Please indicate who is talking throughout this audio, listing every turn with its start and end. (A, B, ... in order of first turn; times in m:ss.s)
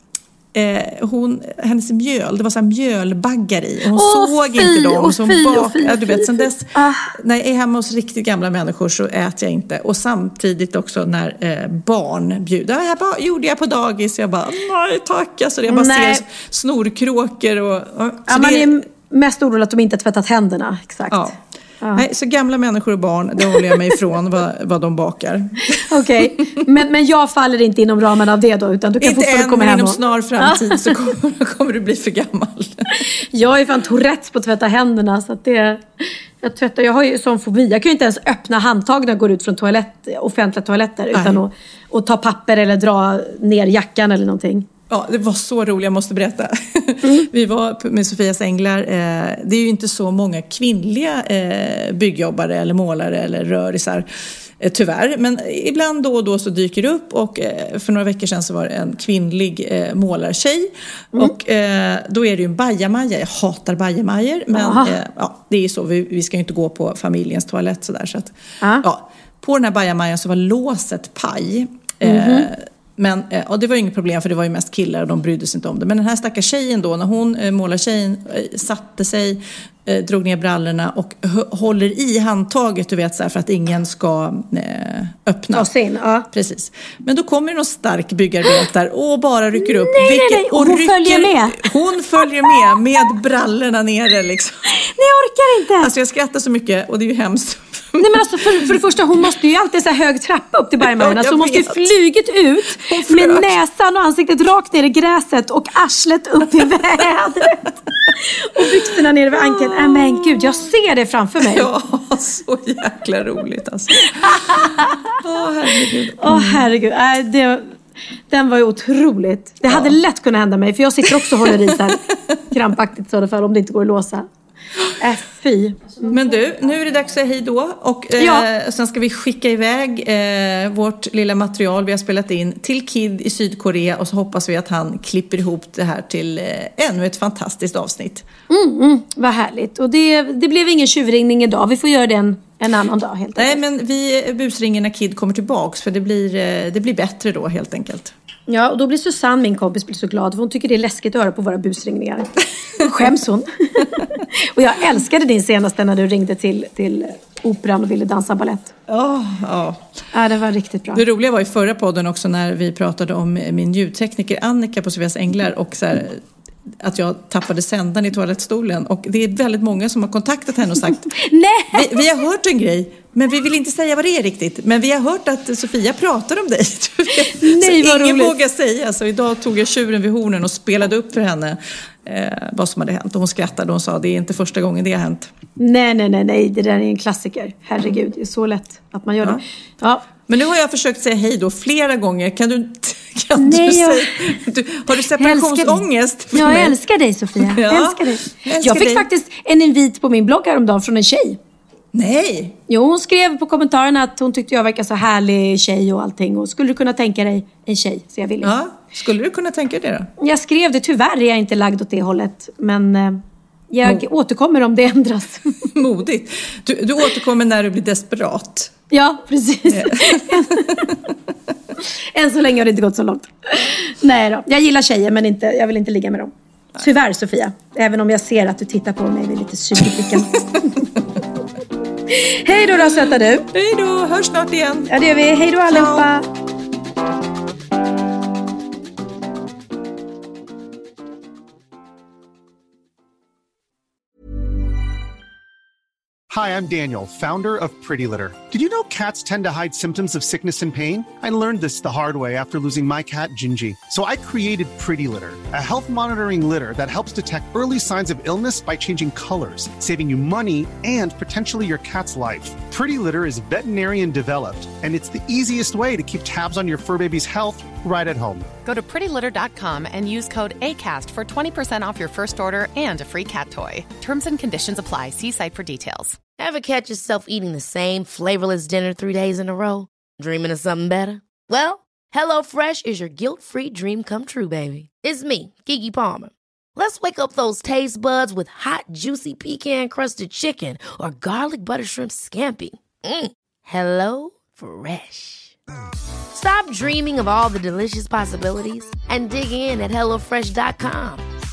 0:00.5-0:18.8 A
0:03.9-0:07.1 B
0:15.7-0:16.2 B
0:18.3-0:22.0 B
0:21.1-0:21.4 A
0:21.9-0:26.2 A
0:25.7-0:30.9 B
0:29.0-0:33.0 A
0:33.0-0:35.8 B
0:36.4-0:44.7 B
0:41.1-0:41.4 A
0:44.9-0:54.0 A
0:47.0-0:47.3 B
0:54.6-1:25.7 A
1:04.5-1:05.0 B
1:12.0-1:12.5 B
1:25.5-1:26.3 B
1:26.3-1:34.6 A
1:29.6-1:31.7 B
1:34.7-1:35.9 B
1:35.8-1:38.8 A
1:38.0-1:47.6 B
1:40.8-1:41.9 A
1:42.7-1:43.5 A
1:48.2-1:51.7 B
1:49.5-1:49.9 A
1:51.4-1:56.7 A
1:54.0-1:55.1 B
1:56.2-1:57.7 B
1:58.3-2:02.0 B
1:59.7-2:00.0 A
2:01.2-2:02.4 A
2:02.5-2:04.2 B
2:05.0-2:06.2 B
2:06.1-2:18.2 A
2:08.2-2:08.4 B
2:18.5-2:23.6 B
2:23.3-2:28.1 A
2:28.5-2:38.7 B
2:38.9-2:39.8 A
2:40.1-2:41.0 B
2:40.9-2:46.2 A
2:46.8-2:51.1 A
2:51.1-2:52.0 B
2:51.7-3:05.3 A
2:57.2-2:58.3 B
3:05.6-3:10.0 B
3:10.2-3:16.8 A
3:13.4-3:14.3 B
3:15.1-3:21.4 B
3:17.4-3:19.1 A
3:21.9-3:22.6 A
3:22.7-3:28.5 B
3:28.4-3:30.1 A
3:30.2-3:35.6 B
3:35.7-3:38.7 A
3:38.9-3:40.9 B
3:39.7-3:40.9 A
3:42.1-3:50.8 B
3:49.9-3:50.2 A
3:52.1-3:53.5 B
3:53.0-3:54.9 A
3:54.9-3:56.2 B
3:55.6-3:56.1 A
4:06.3-4:28.5 C
4:28.6-4:36.2 D
4:36.4-4:55.6 E
4:56.3-5:01.2 E